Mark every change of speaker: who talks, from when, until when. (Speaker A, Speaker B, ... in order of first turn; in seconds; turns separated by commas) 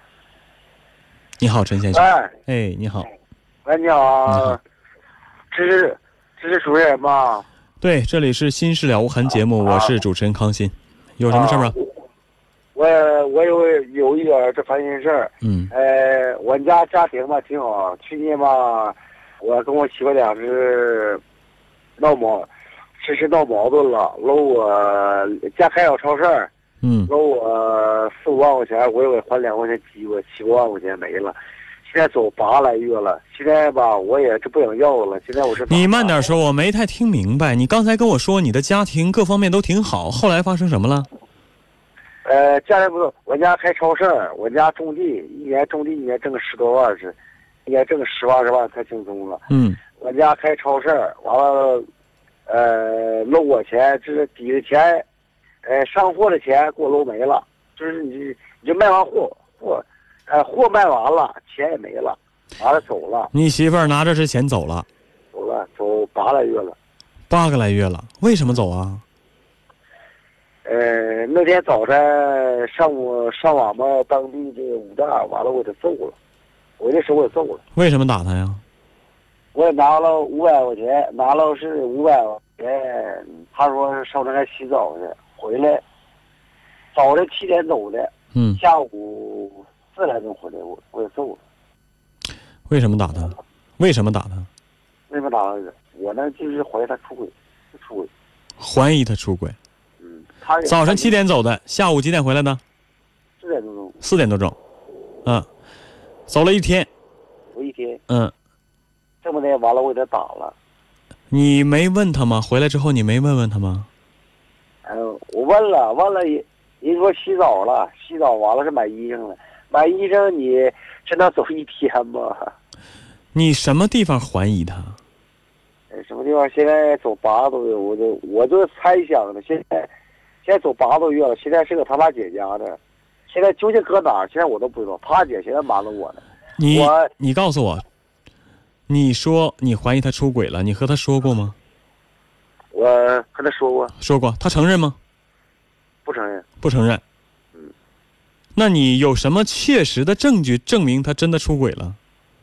Speaker A: 1.4-3.1, Speaker B: 1.9-2.3, Speaker B: 3.6-4.6, Speaker A: 4.3-4.6, Speaker B: 5.5-7.5, Speaker A: 7.8-11.8, Speaker B: 11.3-11.8, Speaker B: 12.7-21.2, Speaker A: 15.4-15.7, Speaker B: 22.0-22.5, Speaker B: 23.0-26.5, Speaker A: 26.8-27.1, Speaker B: 27.1-31.4, Speaker B: 31.9-36.2, Speaker A: 35.7-41.1, Speaker B: 42.2-49.4, Speaker A: 49.5-49.8, Speaker B: 50.0-51.9, Speaker B: 52.5-55.0, Speaker B: 55.6-63.3, Speaker A: 63.3-64.8, Speaker B: 65.3-66.8, Speaker A: 67.3-69.0, Speaker B: 70.7-76.2, Speaker B: 76.8-77.6, Speaker A: 77.7-78.6, Speaker B: 79.5-85.8, Speaker B: 86.9-91.4, Speaker A: 88.3-88.6, Speaker A: 92.7-94.5, Speaker B: 95.1-98.1, Speaker A: 98.6-99.6, Speaker B: 100.0-101.2, Speaker A: 100.6-102.6, Speaker B: 103.4-104.0, Speaker A: 104.0-104.6, Speaker A: 106.3-106.9, Speaker B: 107.5-108.0, Speaker A: 108.1-108.3, Speaker B: 109.2-110.5, Speaker A: 111.3-113.9, Speaker B: 114.8-122.5, Speaker A: 123.3-125.0, Speaker B: 125.9-129.9, Speaker B: 130.4-132.8, Speaker B: 133.3-137.1, Speaker A: 136.6-137.8, Speaker A: 138.9-141.6, Speaker B: 142.7-143.9, Speaker A: 144.0-145.0, Speaker B: 146.0-146.4, Speaker A: 146.6-147.0, Speaker A: 148.5-152.0